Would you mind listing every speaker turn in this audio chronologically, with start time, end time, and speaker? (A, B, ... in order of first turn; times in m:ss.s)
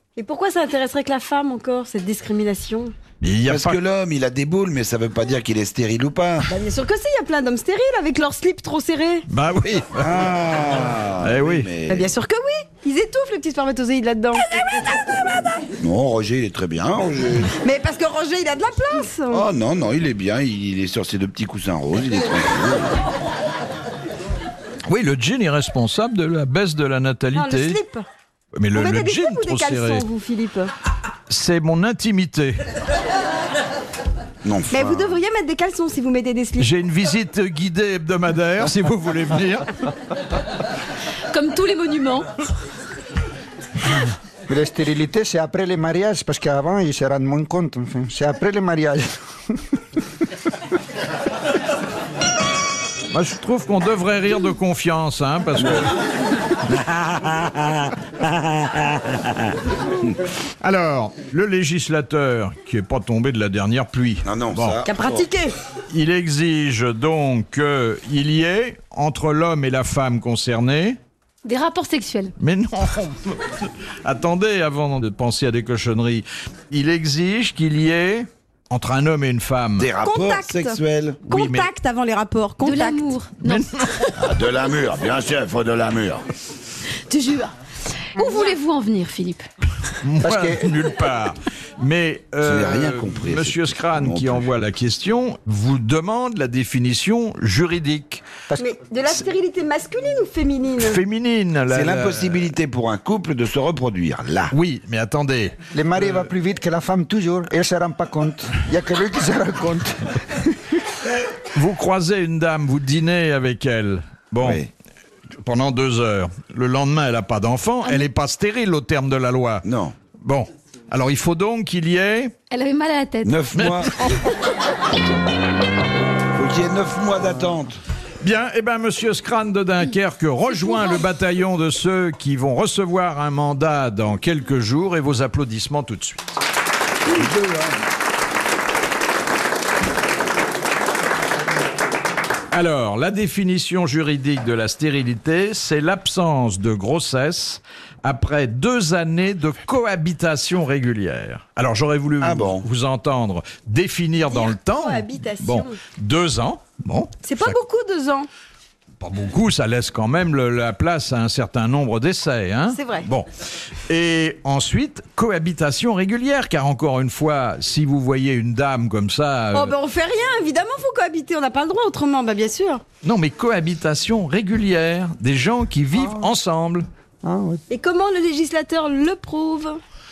0:00.2-0:02.9 A
0:03.2-0:03.8 B
0:03.5-0:06.5 C
0:06.5-0:09.3 A
0:09.3-0:10.2 B
0:10.0-0:12.1 C
0:11.2-0:11.7 B
0:11.9-0:15.7 A
0:15.8-0:17.6 C
0:17.6-0:19.4 A
0:19.3-0:23.0 C
0:24.9-0:27.8 B
0:27.4-0:28.1 A
0:28.6-0:30.1 B
0:28.7-0:30.7 A
0:31.3-0:32.6 B
0:34.4-0:35.1 C
0:34.7-0:36.7 A
0:36.6-0:39.9 B
0:41.3-0:42.3 D
0:44.5-0:49.8 E
0:53.1-0:55.9 B
0:56.7-0:59.6 C
1:00.6-1:04.8 B
1:04.2-1:05.2 C
1:04.9-1:05.6 A
1:05.9-1:11.0 B
1:11.4-1:12.4 D
1:12.4-1:19.9 B
1:19.8-1:21.2 C
1:20.0-1:23.1 A
1:21.3-1:21.7 B
1:22.6-1:24.4 D
1:23.4-1:24.2 B
1:24.2-1:26.2 C
1:27.1-1:27.5 D
1:28.2-1:29.4 D
1:30.0-1:38.2 B
1:30.2-1:30.7 E
1:32.4-1:34.5 C
1:38.6-1:41.0 A
1:40.8-1:42.5 B
1:41.7-1:44.5 C
1:44.5-1:45.6 B
1:45.7-1:50.8 E
1:51.5-1:54.7 B
1:54.4-1:54.7 C
1:55.4-2:02.4 B
1:59.6-1:59.9 C
2:02.5-2:03.4 D
2:03.2-2:04.0 C
2:03.5-2:04.3 B
2:06.4-2:07.8 C
2:08.2-2:16.2 B
2:10.6-2:11.0 D
2:17.1-2:17.8 C
2:22.5-2:37.6 B
2:32.2-2:32.7 C
2:34.3-2:35.8 A
2:37.2-2:38.3 A
2:39.0-2:43.3 B
2:42.7-2:43.1 A
2:43.9-2:49.7 B
2:49.5-2:52.8 A
2:53.0-2:56.9 B
2:56.0-2:56.3 E
2:57.2-2:57.6 E
2:57.7-2:59.8 A